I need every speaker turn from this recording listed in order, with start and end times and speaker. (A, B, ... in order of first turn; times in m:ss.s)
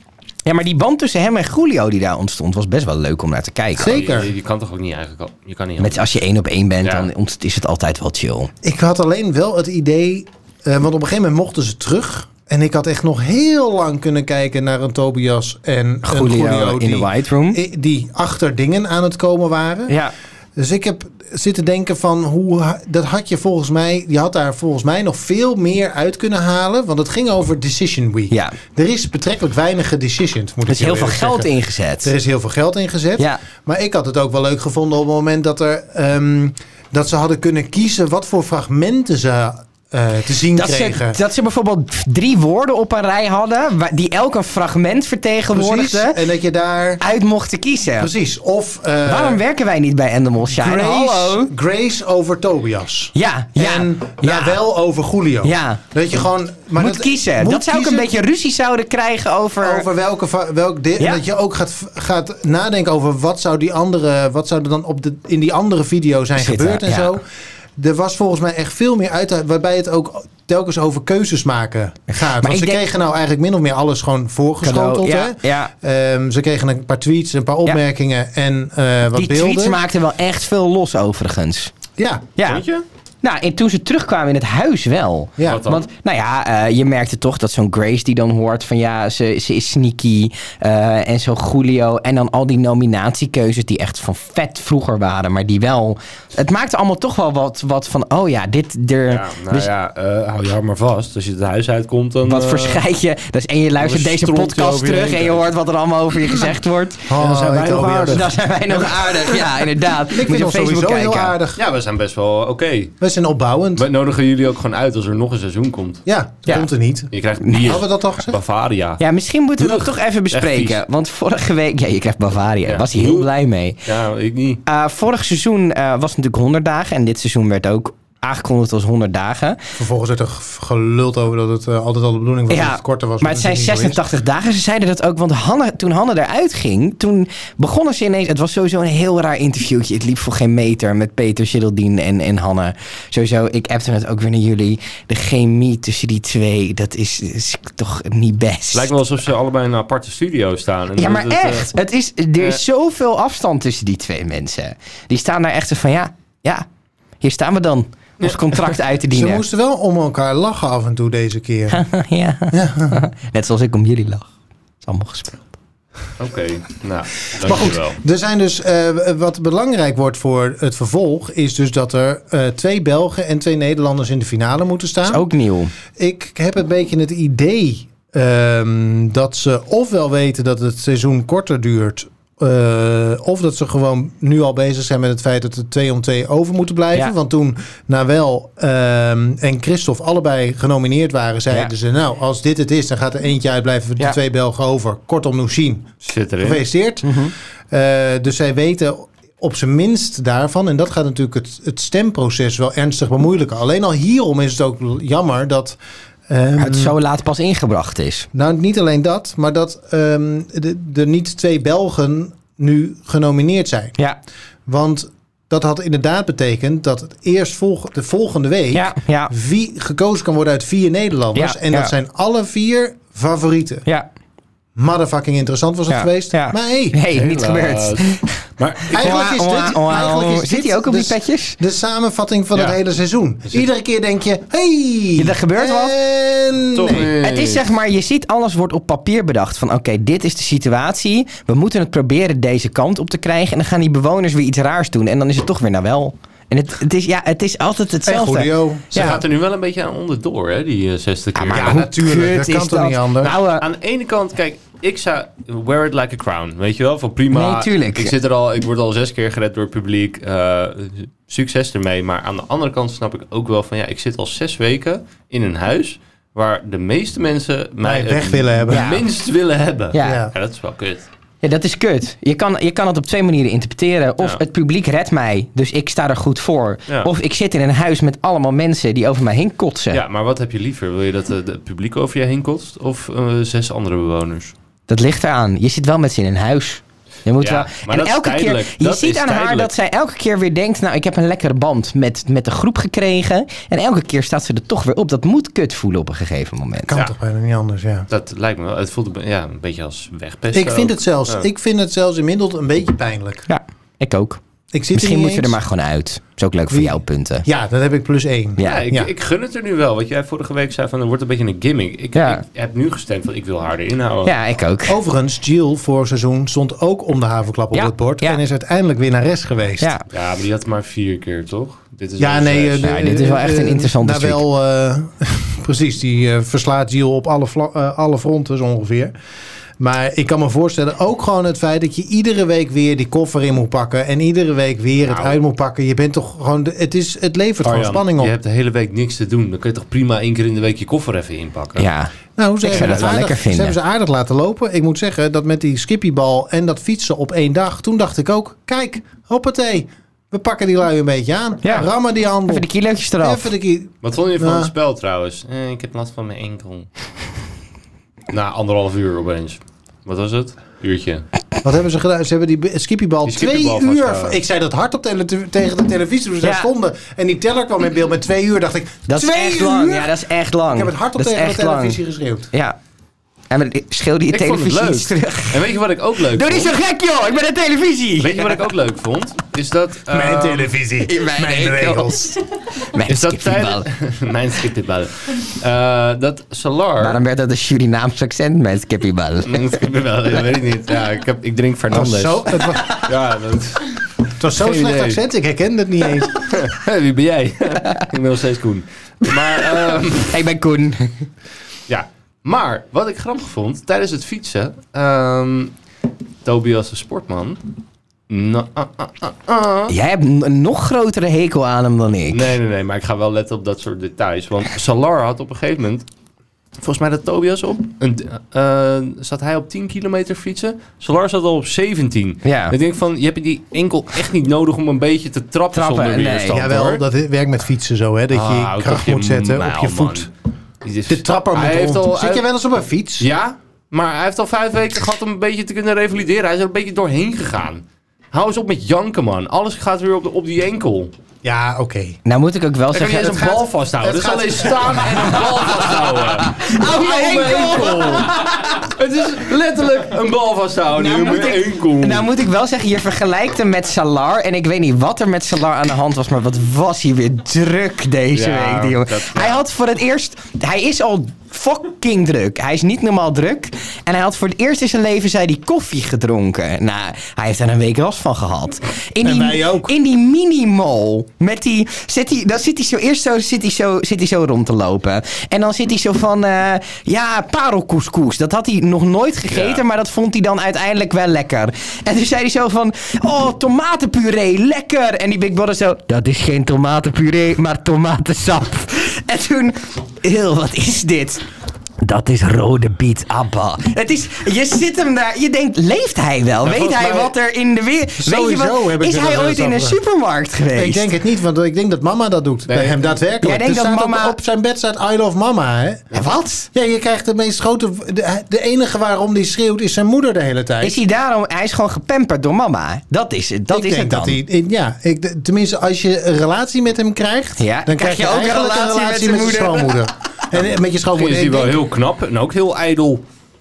0:00.4-0:04.0 A
0:03.8-0:04.3 B
0:03.8-0:06.0 C
0:05.8-0:08.5 A
0:08.6-0:19.9 B
0:16.0-0:17.6 A
0:19.9-0:20.1 A
0:20.6-0:31.5 B
0:28.3-0:28.6 A
0:30.7-0:32.1 A
0:32.0-0:41.2 B
0:40.5-0:46.2 A
0:45.5-0:47.0 B
0:47.0-0:48.1 A
0:48.0-0:49.4 B
0:49.1-0:51.5 A
0:50.4-0:58.1 B
0:53.1-0:54.6 A
0:55.4-0:55.8 A
0:56.8-0:59.9 A
0:59.6-1:07.2 B
1:06.4-1:07.2 A
1:07.8-1:19.8 B
1:12.1-1:12.8 A
1:14.6-1:15.7 A
1:19.1-1:21.7 A
1:22.0-1:22.3 B
1:22.4-1:22.6 A
1:22.4-1:22.8 C
1:23.2-1:39.7 A
1:25.4-1:25.6 B
1:25.4-1:25.9 C
1:39.1-1:42.8 C
1:42.2-1:51.4 A
1:43.8-1:45.5 C
1:47.1-1:48.3 B
1:47.2-1:48.2 C
1:50.1-1:51.6 B
1:51.6-1:53.0 C
1:53.0-1:53.9 B
1:53.8-1:56.0 C
1:56.1-1:58.4 B
1:57.1-1:59.0 C
1:57.4-1:57.8 A
1:59.0-2:03.8 A
1:59.6-2:00.8 C
2:02.6-2:03.3 C
2:03.8-2:04.6 C
2:04.7-2:09.6 A
2:09.8-2:14.0 B
2:12.5-2:29.0 A
2:28.7-2:31.7 C
2:31.0-2:36.6 A
2:37.2-2:39.4 A
2:39.1-2:41.8 B
2:41.7-2:44.3 A
2:42.5-2:43.0 B
2:44.8-2:45.4 A
2:46.2-2:48.0 C
2:47.4-2:55.2 B
2:55.0-2:55.7 A
2:56.0-3:15.9 B
3:16.0-3:16.6 C
3:16.4-3:25.8 B
3:17.0-3:17.3 A
3:26.3-3:27.0 B
3:26.6-3:28.3 A
3:28.3-3:34.0 B
3:34.7-3:43.9 B
3:38.7-3:39.3 A
3:41.4-3:41.9 A
3:44.8-3:47.0 B
3:45.9-3:51.6 A
3:47.1-3:49.2 C
3:48.9-3:57.2 B
3:55.2-3:56.0 A
3:56.8-3:57.8 C
3:57.2-4:09.2 A
4:08.1-4:09.2 B
4:08.9-4:11.8 C
4:11.4-4:13.6 A
4:11.5-4:13.4 B
4:13.6-4:31.1 C
4:17.3-4:18.1 A
4:27.8-4:28.9 B
4:28.7-4:29.0 A
4:29.9-4:30.2 A
4:30.0-4:30.3 B
4:31.4-4:40.0 A
4:39.9-4:44.5 C
4:44.9-4:56.9 A
4:47.4-4:49.7 C
4:56.9-4:58.1 B
4:58.1-5:01.5 C
5:00.5-5:03.5 B
5:03.5-5:04.4 A
5:04.7-5:05.6 B
5:04.9-5:07.5 A
5:06.7-5:09.1 B
5:08.6-5:08.8 A
5:08.6-5:14.3 C
5:12.2-5:12.4 A
5:14.2-5:15.0 A
5:14.9-5:19.9 B
5:17.7-5:18.4 A
5:19.8-5:20.0 A
5:20.1-5:23.0 C
5:22.2-5:29.1 B
5:22.8-5:24.4 A
5:29.8-5:38.3 B
5:35.1-5:35.4 C
5:37.6-5:41.9 C
5:41.8-5:42.1 A
5:42.4-5:52.7 B
5:42.6-5:43.8 A
5:42.8-5:43.1 C
5:51.6-5:51.9 A
5:52.5-5:53.5 A
5:53.2-5:54.7 B
5:54.0-5:56.9 C
5:58.3-6:01.2 C
6:01.6-6:10.2 B
6:03.3-6:04.4 C
6:06.4-6:06.7 A
6:09.1-6:12.0 A
6:10.7-6:12.5 B
6:13.5-6:15.7 A
6:14.3-6:16.7 C
6:16.3-6:18.6 A
6:18.2-6:20.7 C
6:20.1-6:22.4 B
6:21.0-6:23.9 A
6:23.1-6:27.2 C
6:27.0-6:29.6 A
6:29.5-6:32.5 C
6:31.9-6:33.0 B
6:33.0-6:35.2 C
6:34.4-6:36.5 B
6:36.4-6:40.4 C
6:40.3-6:41.3 A
6:41.9-6:45.7 C
6:46.4-6:47.6 C
6:48.3-6:49.9 C
6:49.9-6:52.5 A
6:52.3-6:56.0 C
6:56.8-7:07.0 C
7:02.4-7:02.8 A
7:05.7-7:06.6 A
7:06.5-7:10.3 B
7:08.3-7:10.3 C
7:10.8-7:12.4 C
7:11.1-7:13.3 B
7:13.2-7:21.1 C
7:21.4-7:22.2 B
7:22.2-7:23.5 A
7:22.9-7:32.3 C
7:23.3-7:25.6 B
7:26.4-7:28.9 A
7:31.0-7:31.6 B
7:31.1-7:31.4 A
7:32.0-8:11.4 A
7:38.3-7:39.6 C
7:49.2-7:49.9 B
7:59.5-7:59.8 C
8:12.0-8:21.1 A
8:16.6-8:17.3 C
8:18.2-8:20.0 B
8:20.8-8:26.2 B
8:22.7-8:23.2 C
8:23.4-8:24.4 A
8:26.1-8:26.7 A
8:26.7-8:31.0 B
8:30.8-8:34.4 A
8:33.7-8:41.8 B
8:37.6-8:40.0 A
8:41.1-8:43.2 C